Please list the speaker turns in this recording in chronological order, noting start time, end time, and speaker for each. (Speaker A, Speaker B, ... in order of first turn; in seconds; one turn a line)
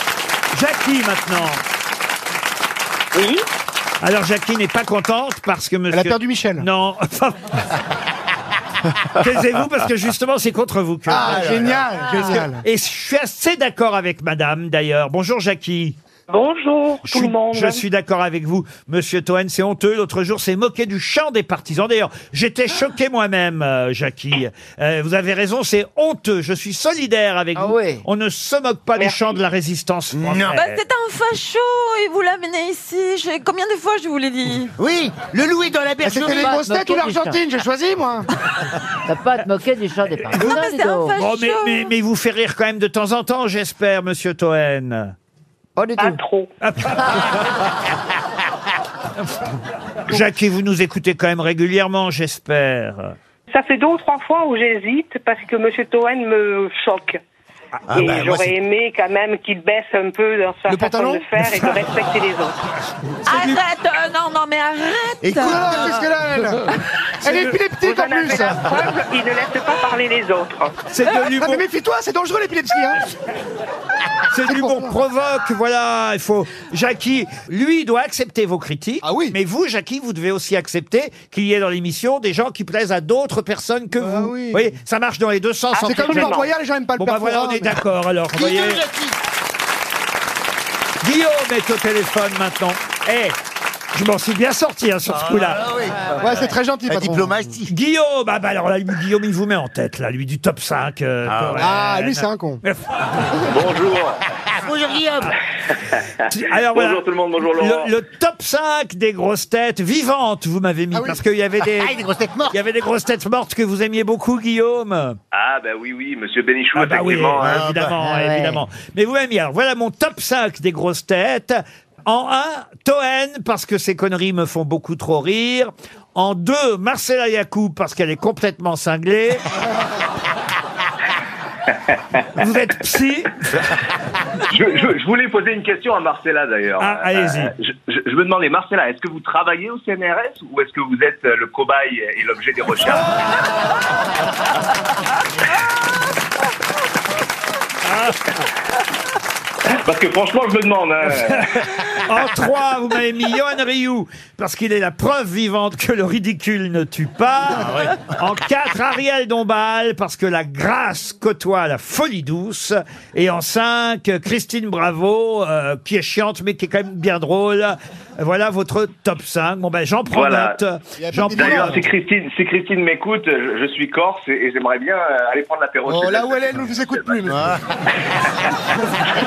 Speaker A: 0.5-1.6
Speaker B: 3.1-3.4
Speaker A: 4.0-7.6
Speaker C: 5.9-6.7
Speaker A: 9.2-16.0
Speaker C: 11.1-12.6
Speaker D: 11.2-11.9
Speaker B: 16.3-17.8
Speaker A: 17.0-30.8
Speaker E: 27.6-28.0
Speaker B: 29.0-29.4
Speaker D: 30.1-30.6
Speaker F: 30.6-34.7
Speaker D: 34.8-36.6
Speaker C: 36.0-38.3
Speaker E: 36.2-37.4
Speaker E: 39.1-41.1
Speaker F: 40.3-41.9
Speaker A: 41.2-45.1
Speaker E: 45.8-46.2
Speaker B: 46.0-46.5
Speaker A: 46.6-47.4
Speaker A: 50.1-53.1
Speaker B: 53.5-57.2
Speaker D: 57.9-58.6
Speaker B: 57.9-62.6
Speaker C: 60.7-61.3
Speaker A: 61.4-61.9
Speaker A: 63.3-63.6
Speaker F: 63.3-66.0
Speaker D: 65.2-66.0
Speaker C: 65.4-68.8
Speaker B: 67.8-70.8
Speaker A: 70.9-71.6
Speaker C: 71.3-73.0
Speaker A: 74.3-86.4
Speaker C: 74.5-75.0
Speaker C: 79.0-79.4
Speaker C: 84.0-84.7
Speaker C: 85.8-87.8
Speaker G: 86.1-86.4
Speaker A: 87.0-88.8
Speaker D: 88.3-89.2
Speaker A: 91.0-93.4
Speaker A: 93.9-95.6
Speaker D: 95.1-97.7
Speaker C: 96.2-97.3
Speaker A: 97.7-103.3
Speaker D: 101.2-101.7
Speaker C: 101.6-102.6
Speaker G: 103.5-104.2
Speaker D: 104.5-105.3
Speaker A: 106.3-112.0
Speaker G: 106.3-107.9
Speaker C: 110.9-111.2
Speaker D: 111.6-112.6
Speaker A: 112.5-115.2
Speaker G: 115.3-117.6
Speaker A: 116.7-129.5
Speaker D: 117.4-118.0
Speaker E: 118.0-118.6
Speaker A: 132.4-133.6
Speaker G: 134.5-143.3
Speaker A: 136.8-137.5
Speaker A: 147.8-148.2
Speaker G: 149.7-151.8
Speaker A: 151.2-171.8
Speaker D: 157.5-158.0
Speaker G: 170.1-170.6
Speaker C: 171.0-171.9
Speaker G: 171.3-177.2
Speaker C: 175.9-177.5
Speaker D: 177.3-177.6